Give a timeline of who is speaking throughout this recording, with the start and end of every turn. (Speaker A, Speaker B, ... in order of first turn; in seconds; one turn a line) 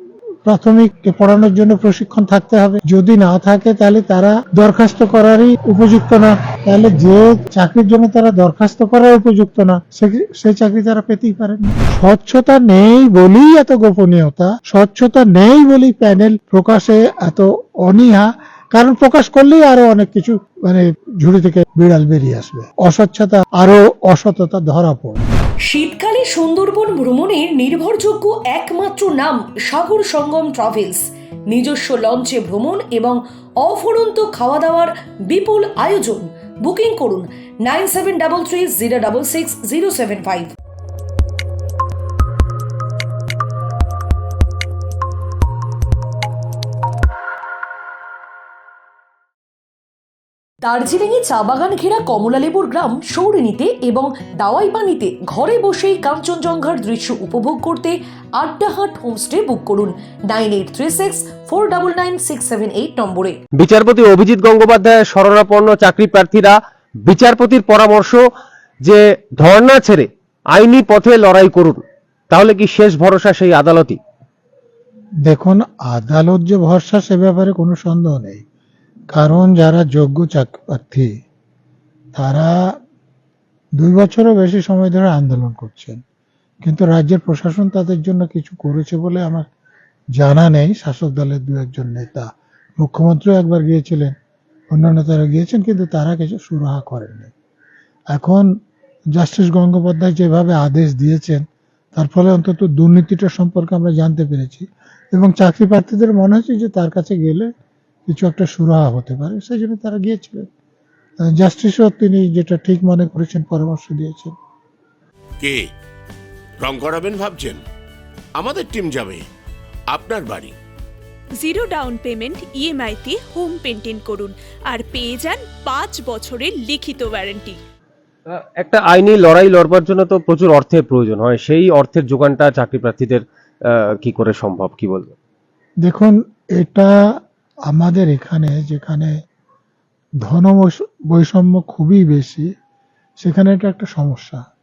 Speaker A: 0.5-25.2
Speaker B: 25.7-40.5
Speaker B: 50.6-63.4
Speaker C: 63.6-68.2
Speaker C: 68.8-74.0
Speaker A: 75.3-78.4
Speaker A: 79.1-81.1
Speaker A: 82.2-82.5
Speaker A: 83.8-86.0
Speaker A: 86.7-89.5
Speaker A: 90.2-92.3
Speaker A: 92.8-94.2
Speaker A: 94.7-97.3
Speaker A: 98.1-98.5
Speaker A: 99.2-101.4
Speaker A: 102.0-107.5
Speaker A: 108.1-110.5
Speaker A: 111.2-114.3
Speaker D: 115.4-115.7
Speaker D: 116.6-117.6
Speaker D: 118.4-119.2
Speaker D: 119.9-120.5
Speaker E: 121.4-127.6
Speaker C: 128.3-133.2
Speaker C: 134.0-135.1
Speaker A: 135.8-137.0
Speaker A: 137.7-139.1
Speaker A: 140.2-142.5
Speaker A: 143.2-144.4